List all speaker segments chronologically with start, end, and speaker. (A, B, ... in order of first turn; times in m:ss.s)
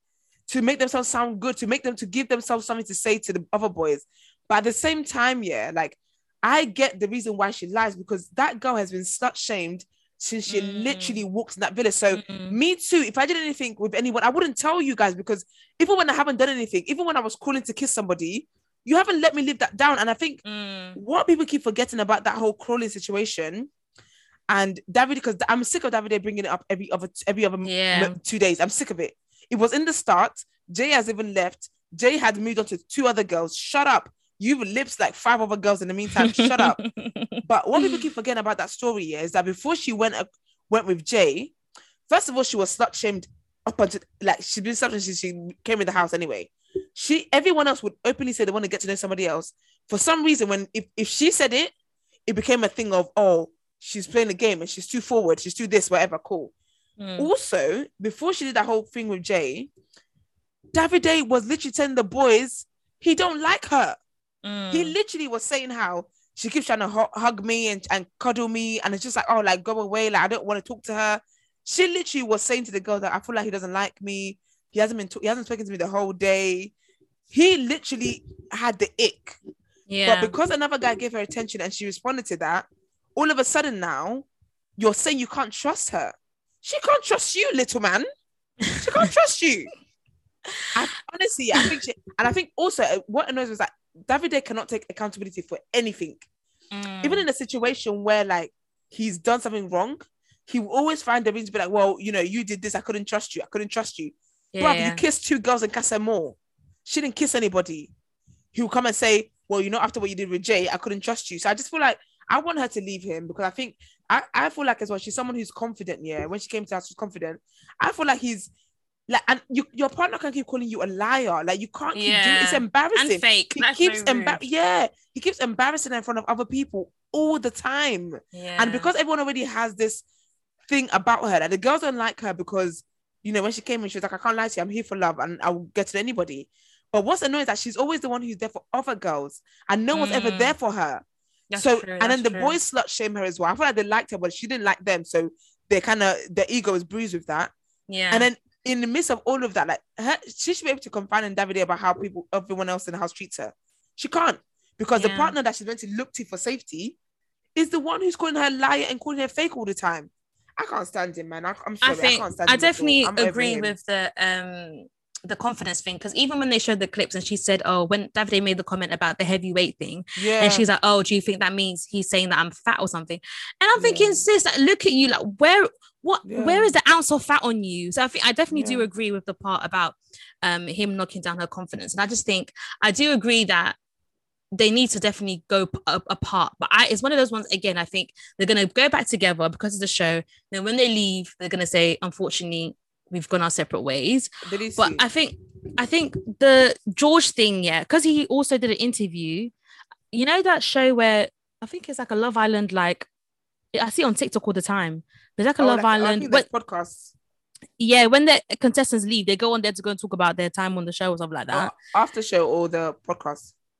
0:00.5-0:20.4 A
0:10.5-0:11.2 B
0:12.1-0:12.6 B
0:20.4-0:21.0 B
0:21.0-0:23.7 A
0:24.5-0:36.8 A
0:27.6-0:28.2 B
0:36.2-0:38.0 B
0:37.4-0:41.5 A
0:42.1-0:51.7 A
0:52.2-0:56.5 A
0:57.0-0:57.3 B
0:57.2-0:59.7 A
1:00.7-1:04.0 A
1:04.4-1:04.9 B
1:04.7-1:16.7 A
1:17.3-1:19.4 A
1:19.9-1:20.3 B
1:20.0-1:24.2 A
1:24.8-1:28.1 A
1:28.7-1:29.1 B
1:28.8-1:29.7 A
1:30.7-1:36.2 A
1:36.7-1:37.2 B
1:37.0-1:47.9 A
1:44.5-1:45.0 B
1:48.5-1:58.5 A
1:59.1-2:10.0 A
2:01.9-2:04.4 B
2:08.3-2:08.9 B
2:10.7-2:21.0 A
2:19.9-2:20.5 B
2:21.5-2:22.5 B
2:21.6-2:27.5 A
2:27.9-2:28.3 B
2:28.1-2:37.0 A
2:35.0-2:35.3 B
2:37.6-2:43.7 A
2:41.8-3:03.8 B
2:50.2-2:50.7 A
2:53.8-2:54.2 A
2:56.2-2:56.7 A
2:58.5-2:58.9 A
3:04.5-3:19.5 B
3:14.4-3:15.0 A
3:20.1-3:23.1 B
3:23.7-3:26.5 B
3:25.6-3:27.1 A
3:27.8-3:31.8 B
3:31.5-3:33.5 A